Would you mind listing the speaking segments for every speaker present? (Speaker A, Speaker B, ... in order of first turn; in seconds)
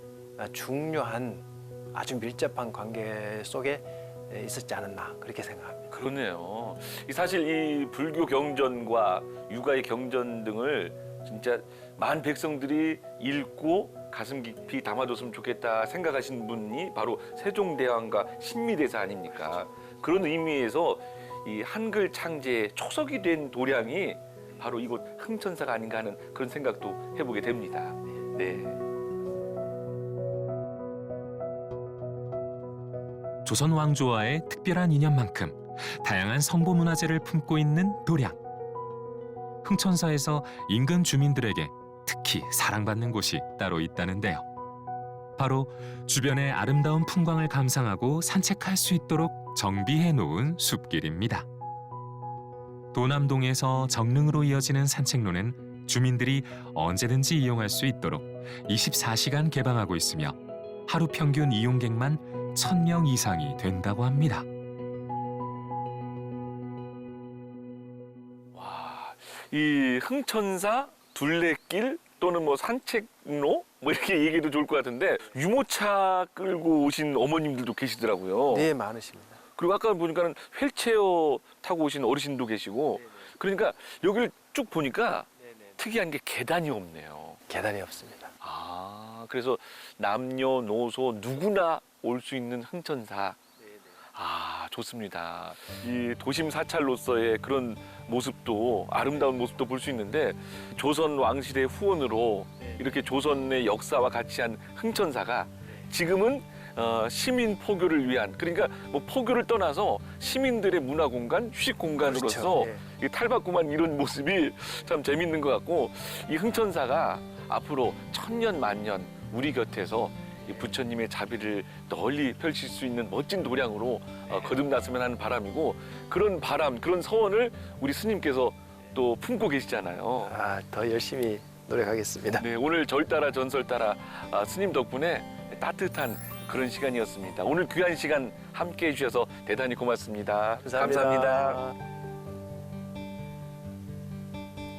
Speaker A: 0.4-5.9, 78.5-79.4, 87.5-88.3, 112.0-112.8, 130.2-132.4, 140.6-141.7
Speaker B: 5.9-28.8, 68.5-78.7, 79.6-87.4, 88.4-93.4, 94.1-130.4, 132.4-141.6
Speaker C: 33.5-38.4, 39.6-44.5, 45.4-51.5, 52.9-64.5